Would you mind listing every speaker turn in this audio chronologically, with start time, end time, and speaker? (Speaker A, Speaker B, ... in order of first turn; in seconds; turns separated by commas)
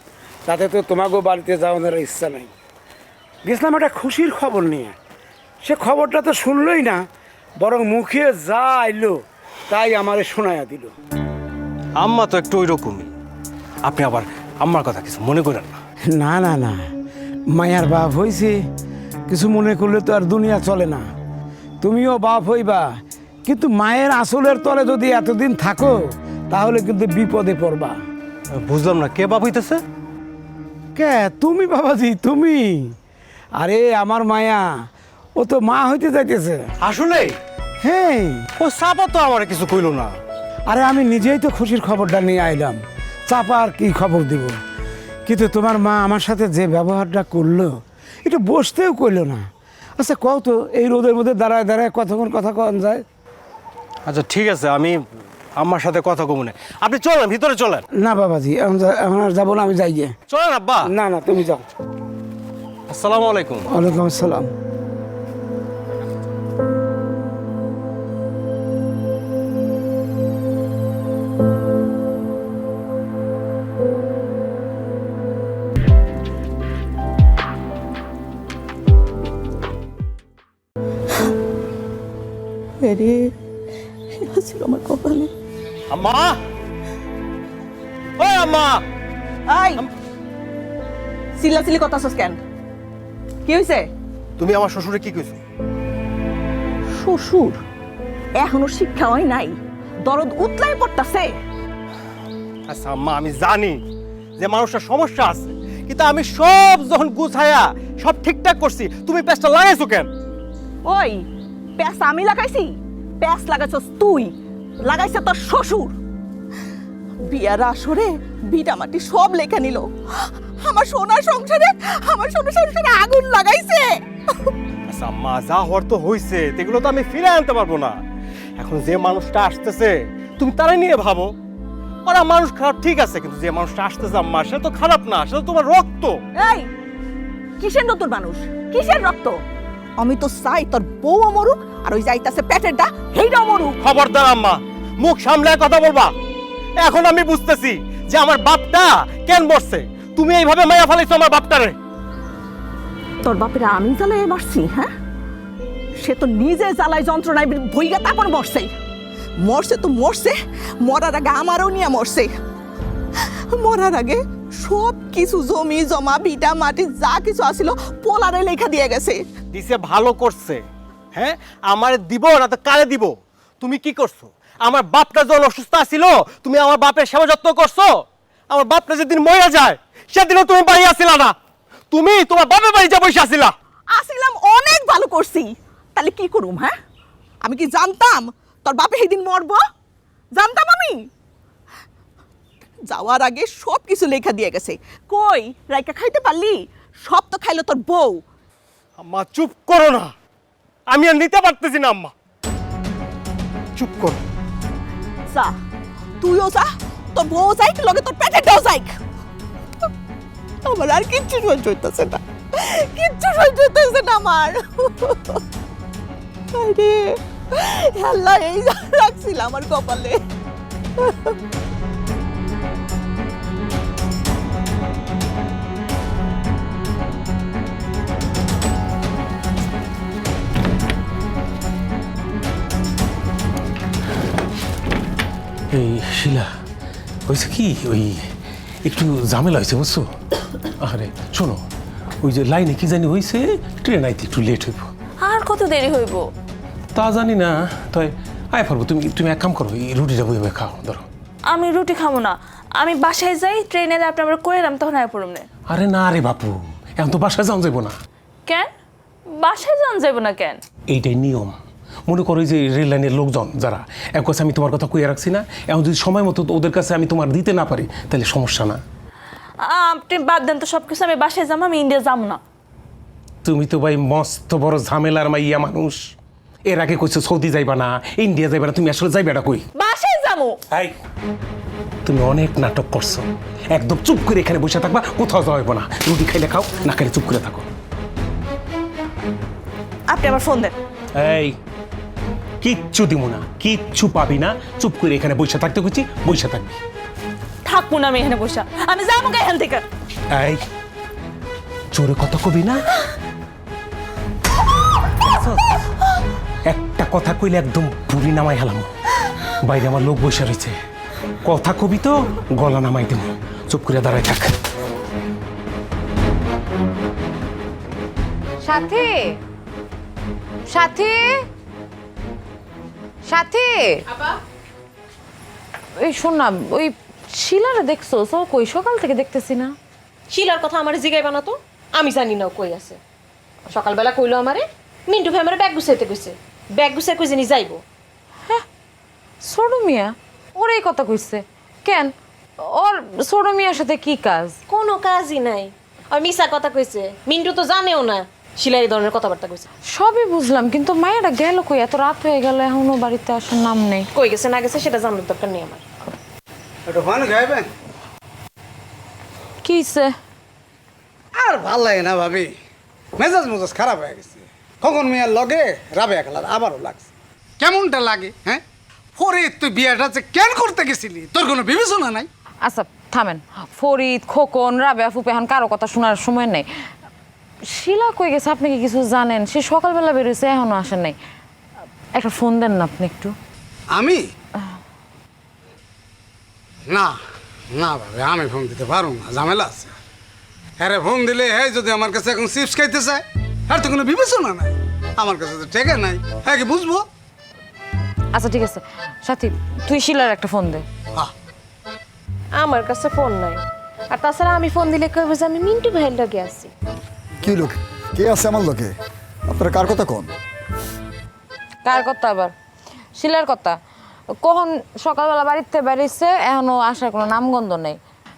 Speaker A: 0.5-2.5, Speaker A: 3.5-5.0, Speaker A: 5.6-7.0, Speaker A: 7.6-10.9, Speaker B: 12.0-13.1, Speaker B: 13.8-15.8, Speaker A: 16.1-16.8, Speaker A: 17.5-18.6, Speaker A: 19.3-21.1, Speaker A: 21.8-22.9, Speaker A: 23.5-26.0, Speaker A: 26.5-28.0, Speaker B: 28.6-29.8, Speaker A: 31.0-32.9, Speaker A: 33.6-34.7, Speaker A: 35.4-36.6, Speaker B: 36.8-37.4, Speaker A: 37.8-38.5, Speaker B: 38.6-40.2, Speaker A: 40.7-44.5, Speaker A: 45.3-47.7, Speaker A: 48.2-49.4, Speaker A: 50.0-53.0, Speaker B: 54.1-57.9, Speaker A: 58.0-60.1, Speaker B: 60.3-60.9, Speaker A: 60.9-61.6, Speaker B: 62.9-63.7, Speaker A: 63.7-64.5, Speaker C: 82.8-83.3, Speaker C: 84.2-85.3, Speaker B: 85.9-86.4, Speaker B: 88.2-88.8, Speaker C: 89.5-89.8, Speaker C: 91.4-92.4, Speaker C: 93.5-93.9, Speaker B: 94.4-95.4, Speaker C: 96.9-97.6, Speaker C: 98.4-101.3, Speaker B: 102.7-103.8, Speaker B: 104.4-110.1, Speaker C: 110.8-111.2, Speaker C: 111.8-114.3, Speaker C: 114.8-116.0, Speaker C: 117.3-124.5, Speaker B: 124.9-128.0, Speaker B: 128.6-131.3, Speaker B: 132.1-136.2, Speaker C: 136.4-136.7, Speaker C: 137.6-139.4, Speaker C: 140.0-143.8, Speaker B: 143.8-146.1, Speaker B: 146.8-151.8, Speaker C: 153.2-154.9, Speaker C: 156.0-158.7, Speaker C: 159.4-162.3, Speaker C: 163.2-169.2, Speaker B: 169.5-170.6, Speaker B: 171.1-181.3, Speaker B: 181.9-183.5, Speaker C: 183.9-186.7, Speaker C: 187.4-189.6, Speaker C: 190.4-191.0, Speaker C: 192.9-198.2, Speaker B: 199.0-200.1, Speaker B: 200.9-202.1, Speaker B: 203.8-204.2, Speaker C: 205.3-205.6, Speaker C: 206.2-209.0, Speaker C: 210.7-215.4, Speaker C: 216.5-220.2, Speaker C: 221.0-221.4, Speaker D: 235.7-236.5, Speaker D: 237.3-238.3, Speaker D: 238.8-240.1, Speaker D: 240.8-241.6, Speaker D: 242.2-244.9, Speaker E: 245.2-246.3, Speaker D: 246.9-251.1, Speaker E: 251.5-255.4, Speaker D: 255.7-258.0, Speaker E: 259.3-260.6, Speaker D: 260.9-268.8, Speaker E: 269.6-272.4, Speaker D: 273.4-276.0, Speaker D: 276.7-279.6, Speaker E: 279.8-280.6, Speaker D: 282.1-287.7, Speaker E: 290.1-290.7, Speaker D: 291.2-291.6, Speaker D: 292.6-296.8, Speaker E: 297.6-299.8, Speaker D: 300.3-300.7, Speaker D: 301.9-302.8, Speaker D: 305.2-305.7, Speaker D: 306.7-308.9, Speaker D: 309.6-310.8, Speaker D: 311.4-314.5, Speaker F: 318.6-319.4, Speaker F: 320.7-321.3, Speaker F: 323.3-324.0, Speaker F: 326.0-329.7, Speaker G: 330.3-333.0, Speaker G: 333.7-337.8, Speaker F: 339.4-342.1, Speaker F: 342.6-344.6, Speaker G: 344.7-349.7, Speaker F: 349.9-354.1, Speaker G: 354.1-355.8, Speaker H: 356.9-357.7, Speaker F: 359.6-360.1, Speaker H: 361.4-362.5, Speaker H: 363.2-367.1, Speaker H: 367.6-368.6, Speaker H: 369.2-372.3, Speaker F: 372.6-376.6, Speaker F: 377.7-381.2, Speaker F: 382.1-383.3, Speaker H: 383.9-384.2, Speaker H: 386.9-387.2, Speaker H: 387.7-389.9, Speaker H: 390.8-397.1, Speaker F: 398.3-400.9, Speaker G: 402.6-403.6, Speaker G: 404.1-406.7, Speaker I: 407.4-409.0, Speaker I: 409.5-410.3, Speaker F: 411.9-412.5, Speaker F: 413.2-413.8, Speaker F: 414.4-418.0